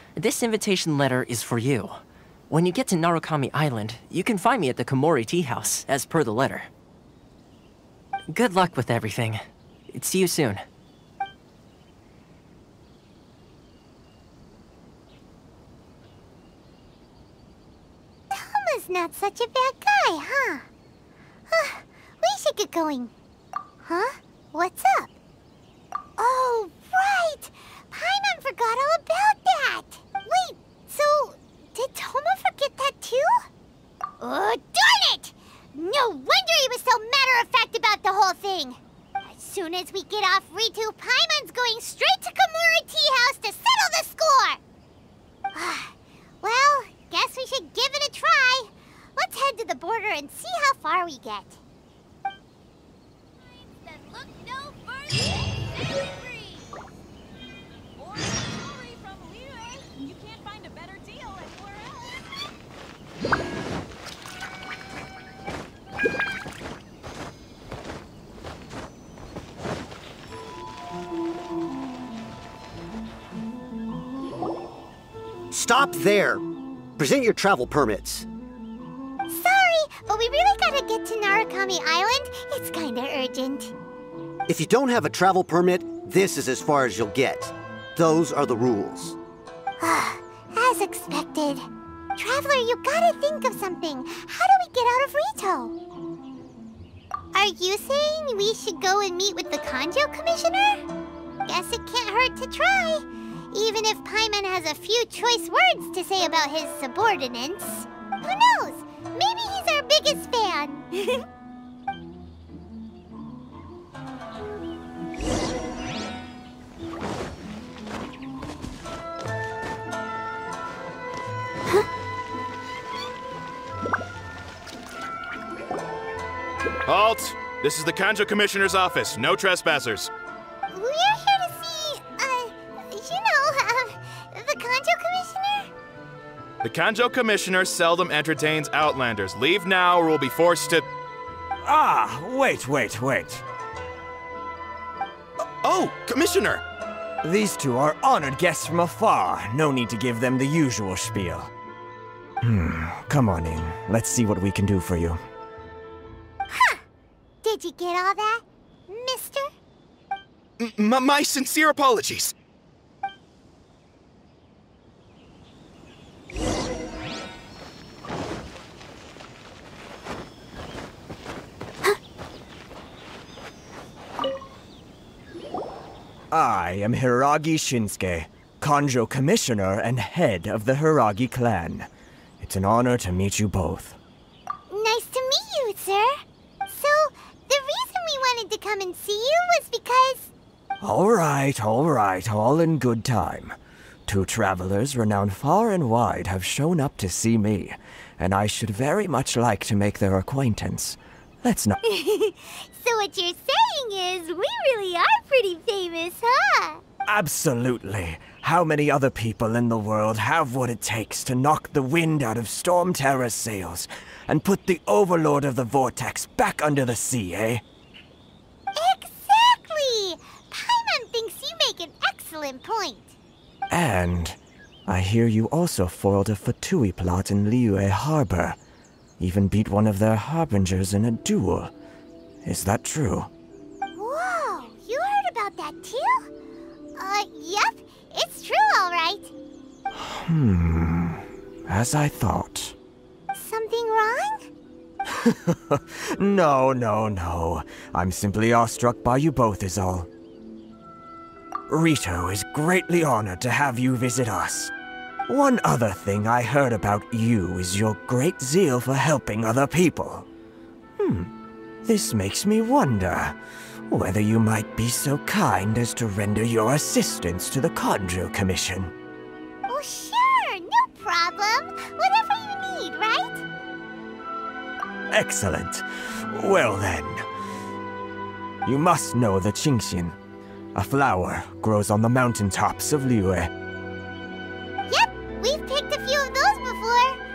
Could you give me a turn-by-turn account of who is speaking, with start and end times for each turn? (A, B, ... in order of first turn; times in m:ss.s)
0:00.2-0:02.0 A
0:02.5-0:06.7 A
0:08.3-0:10.6 A
0:18.3-0:20.7 B
0:21.5-0:23.1 B
0:23.8-0:25.1 B
0:26.2-0:33.5 B
0:34.2-0:44.6 B
0:45.5-0:51.6 B
0:53.9-0:55.3 C
0:56.0-0:56.4 C
0:58.1-1:02.1 C
1:15.5-1:16.4 D
1:17.0-1:18.3 D
1:19.3-1:23.7 B
1:24.5-1:29.2 D
1:29.8-1:35.8 B
1:37.3-1:40.9 B
1:41.5-1:51.2 B
2:06.9-2:10.1 E
2:10.7-2:15.7 B
2:16.6-2:20.9 E
2:21.6-2:23.4 F
2:25.6-2:26.6 E
2:27.2-2:31.5 F
2:32.4-2:35.2 F
2:36.5-2:36.8 B
2:37.4-2:39.5 B
2:40.6-2:42.4 E
2:56.3-3:01.9 F
3:02.4-3:04.0 F
3:04.7-3:06.1 B
3:06.7-3:10.3 B
3:10.8-3:13.6 F
3:14.1-3:21.8 F
3:21.8-3:26.8 B
3:27.1-3:37.6 F
3:38.8-3:43.1 B
3:43.7-3:48.6 F
3:49.2-3:51.7 F
3:52.4-3:53.3 F
3:54.0-3:56.3 B
3:57.0-3:59.3 B
4:00.2-4:02.8 F
4:03.3-4:04.5 B
4:05.2-4:10.1 F
4:11.7-4:14.7 F
4:15.3-4:20.3 F
4:21.0-4:21.3 F
4:21.8-4:23.4 F
4:23.9-4:28.9 F
4:29.7-4:33.4 B
4:35.1-4:37.2 F
4:38.6-4:40.2 F
4:40.8-4:43.5 F
4:44.9-4:47.2 B